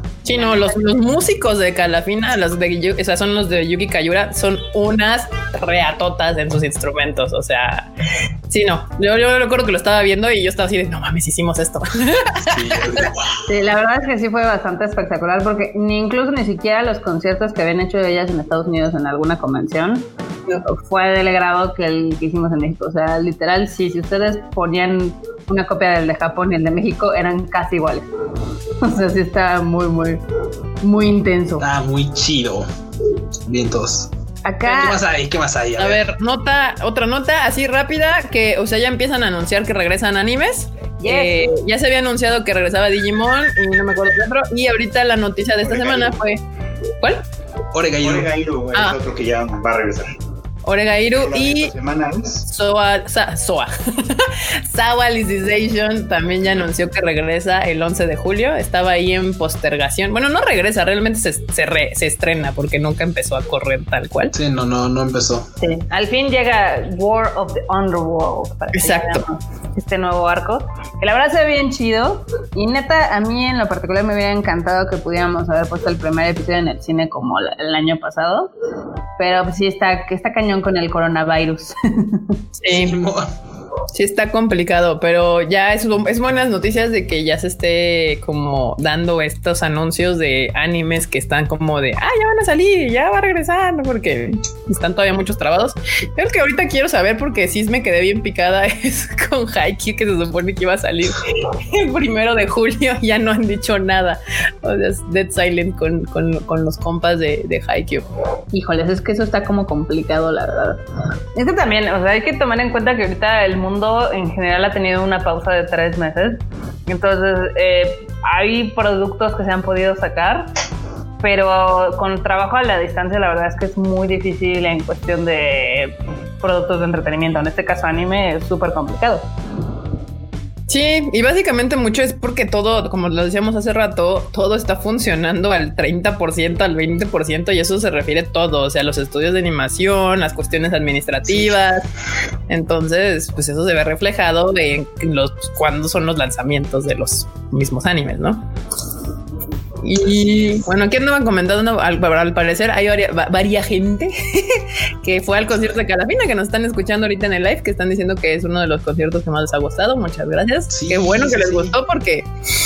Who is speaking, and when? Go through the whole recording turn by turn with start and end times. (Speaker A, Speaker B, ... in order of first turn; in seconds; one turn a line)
Speaker A: 0.2-7.9
Speaker B: 0.4-0.7
Speaker A: 8.5-13.1
Speaker C: 12.5-13.4
Speaker B: 13.4-20.1
Speaker B: 20.6-28.1
Speaker B: 28.8-30.2
Speaker B: 30.8-31.6
Speaker C: 31.6-32.7
Speaker C: 33.5-34.1
Speaker B: 34.4-35.0
Speaker C: 34.6-36.0
Speaker A: 35.8-46.4
Speaker B: 41.0-41.5
Speaker D: 45.6-46.1
Speaker C: 47.7-48.3
Speaker D: 48.0-50.1
Speaker A: 50.6-51.7
Speaker D: 51.1-52.4
Speaker A: 52.5-64.3
Speaker C: 64.3-65.5
Speaker B: 65.6-78.5
Speaker A: 68.7-69.3
Speaker B: 79.2-82.4
Speaker A: 82.6-83.0
Speaker C: 82.7-83.3
Speaker A: 83.9-108.1
Speaker B: 108.5-110.8
Speaker B: 111.3-120.5
Speaker B: 121.2-129.2
Speaker A: 130.7-141.8
Speaker A: 142.5-148.4
Speaker A: 149.8-162.3
Speaker C: 160.7-161.7